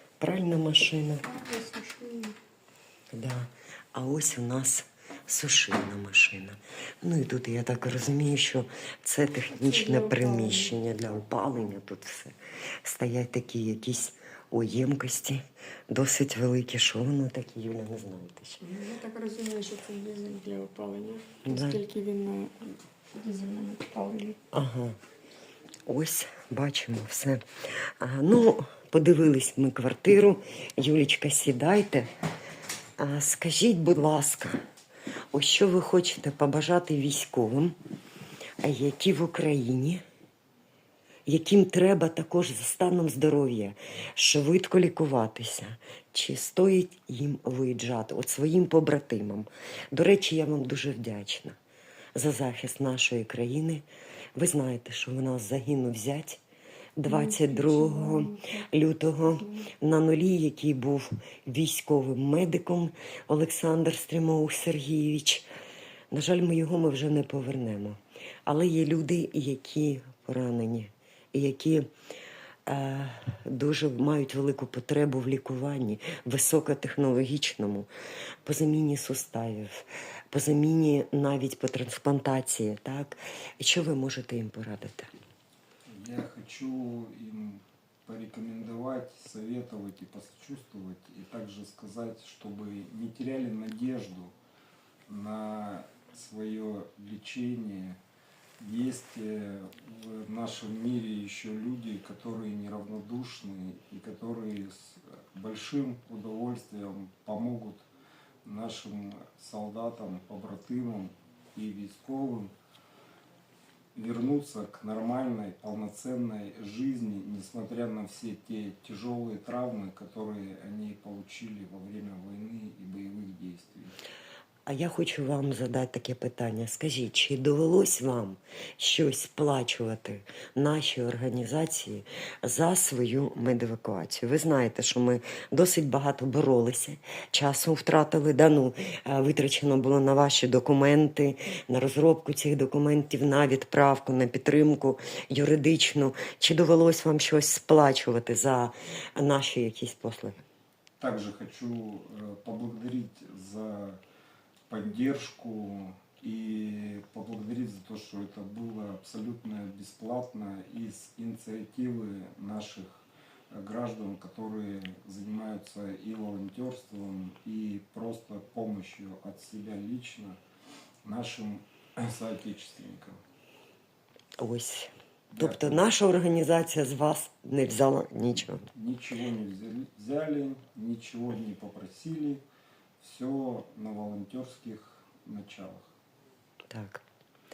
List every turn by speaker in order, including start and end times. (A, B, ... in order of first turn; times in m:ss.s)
0:00.2-0:01.2 A
0:01.2-0:02.4 B
0:03.1-0:18.6 A
0:09.6-0:10.7 B
0:18.6-0:24.4 B
0:21.4-0:21.8 A
0:24.5-0:25.0 A
0:25.9-0:32.1 A
0:33.0-0:34.6 A
0:35.3-0:37.8 A
0:38.6-0:40.0 A
0:41.3-0:51.6 A
0:52.2-0:56.4 A
0:57.0-1:05.5 A
0:57.1-0:58.7 B
0:59.2-0:59.7 B
1:06.1-1:11.9 A
1:12.7-1:17.9 A
1:18.4-1:25.1 A
1:25.9-1:34.4 C
1:35.1-1:38.0 C
1:38.6-1:47.9 C
1:48.4-1:52.5 C
1:54.0-2:04.0 C
2:04.7-2:30.4 A
2:31.0-2:34.0 C
2:34.7-2:50.4 C
2:51.0-2:53.2 C
2:54.4-2:58.7 A
2:55.3-2:55.8 C
2:58.7-3:02.4 C
3:03.0-3:05.9 C
3:06.7-3:07.0 A